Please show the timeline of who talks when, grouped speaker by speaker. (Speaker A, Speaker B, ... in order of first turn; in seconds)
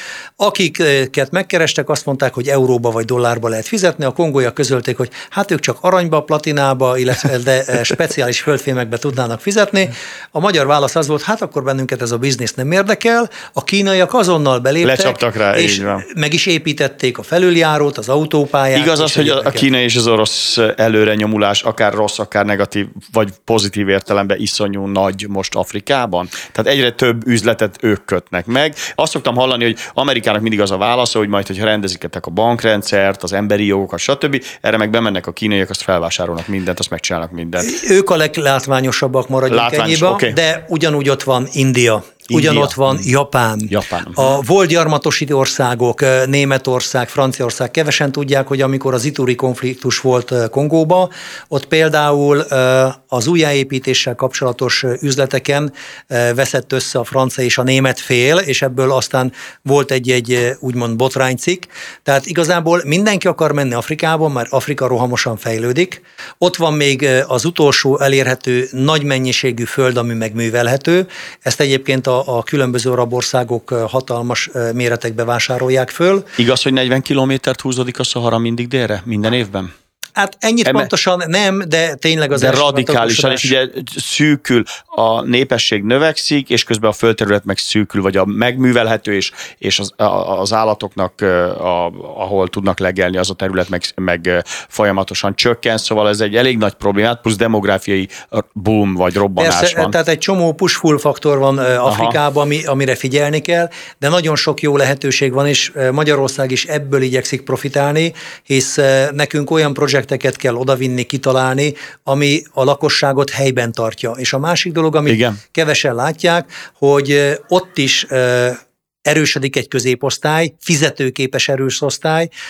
Speaker A: 0.4-19.7, 37.6-76.3, 80.2-83.5, 99.4-122.3
Speaker B: 14.8-16.0, 18.8-37.8, 39.5-40.4, 42.3-43.0, 43.7-44.4, 76.4-79.7, 82.3-99.9, 101.8-102.2, 115.1-115.4